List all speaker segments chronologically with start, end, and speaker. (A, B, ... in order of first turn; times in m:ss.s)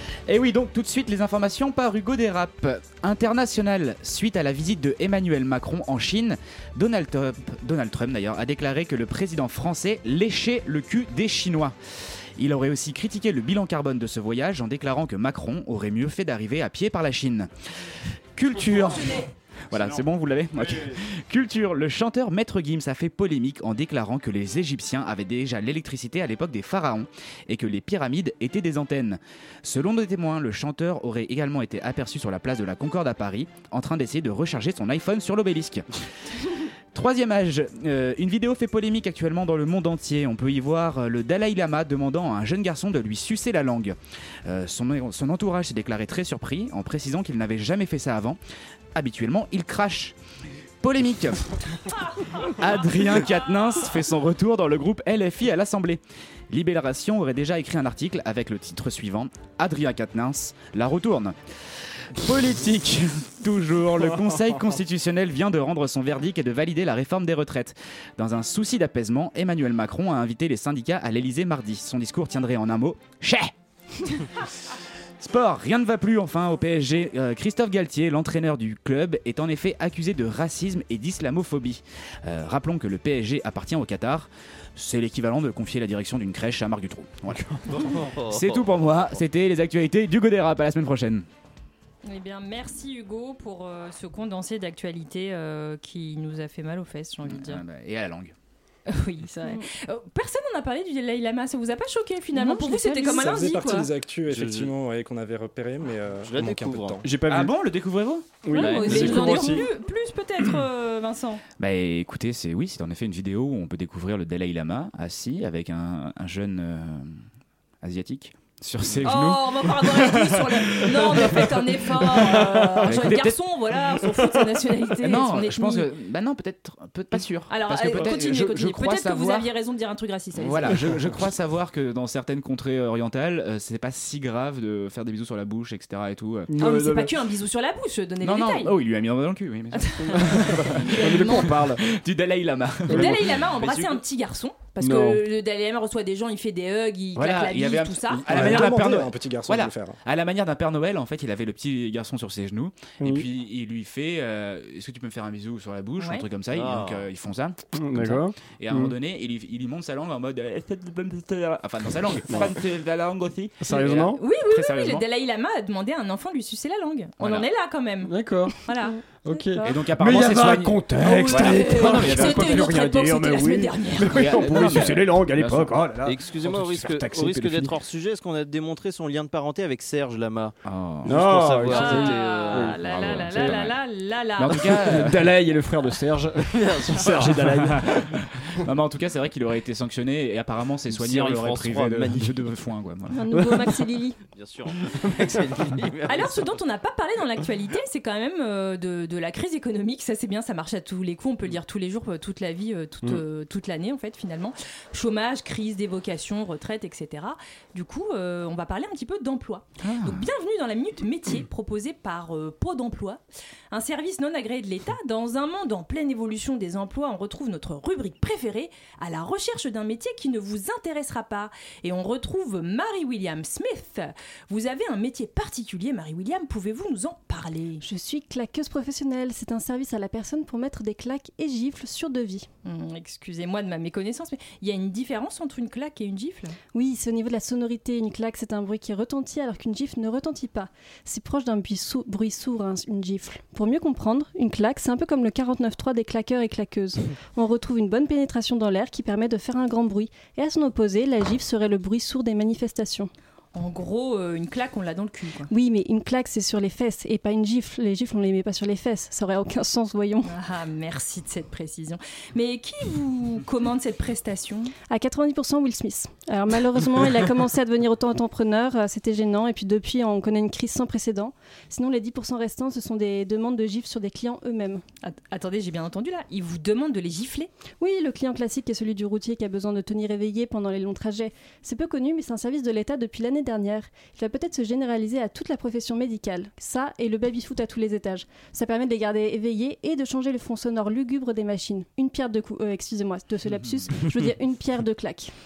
0:00.3-0:11.8 A
0:12.4-0:17.5 A
0:18.4-0:35.8 A
0:19.0-0:19.2 B
0:36.9-0:48.4 A
0:49.0-0:50.2 A
0:50.8-0:51.4 A
0:51.9-0:52.4 B
0:52.5-1:01.4 A
1:02.2-1:13.5 A
1:15.2-1:27.4 A
1:27.7-1:29.2 C
1:28.3-1:31.3 A
1:32.0-1:37.6 B
1:37.3-1:38.3 A
1:38.9-1:43.9 B
1:42.3-1:43.5 D
1:43.0-1:47.2 E
1:44.3-1:44.7 C
1:46.2-1:47.0 C
1:47.0-1:47.6 F
1:47.2-1:49.1 A
1:48.4-1:49.7 F
1:48.5-1:51.4 B
1:48.6-1:49.3 C
1:51.6-1:57.2 A
1:57.8-2:01.5 A
1:59.0-2:05.9 B
2:02.8-2:03.4 A
2:05.0-2:09.5 A
2:07.5-2:11.0 B
2:10.4-2:16.6 A
2:16.5-2:17.1 F
2:16.6-2:18.8 B
2:18.2-2:23.4 A
2:19.7-2:21.6 B
2:21.0-2:21.8 F
2:22.9-2:28.8 B
2:22.9-2:23.2 F
2:23.6-2:23.9 C
2:24.8-2:25.2 F
2:27.2-2:45.0 A
2:28.2-2:30.0 E
2:33.0-2:33.3 F
2:36.0-2:36.2 B
2:36.5-2:37.1 C
2:37.8-2:38.9 F
2:43.6-2:44.2 F
2:44.2-2:49.0 B
2:47.2-2:47.5 A
2:48.0-2:48.6 F
2:49.2-2:57.8 F
2:49.3-2:49.7 D
2:49.6-2:52.9 A
2:51.2-2:54.4 B
2:54.1-2:55.9 A
2:56.0-3:00.6 C
3:00.6-3:01.3 A
3:01.0-3:03.7 F
3:01.1-3:02.8 C
3:01.7-3:04.8 B
3:02.8-3:03.7 A
3:04.4-3:05.3 A
3:04.7-3:08.0 F
3:06.6-3:07.4 C
3:07.6-3:13.3 A
3:10.9-3:12.5 C
3:13.1-3:14.2 D
3:13.4-3:13.7 F
3:14.3-3:16.6 C
3:15.0-3:15.4 F
3:16.1-3:47.8 B
3:29.8-3:30.2 A
3:47.8-3:52.5 D
3:52.6-3:56.6 B
3:56.7-4:13.1 D
4:13.5-4:15.5 B
4:15.5-4:20.3 D
4:20.3-4:24.7 B
4:24.9-4:34.8 D
4:35.0-4:37.5 B
4:37.8-4:55.3 D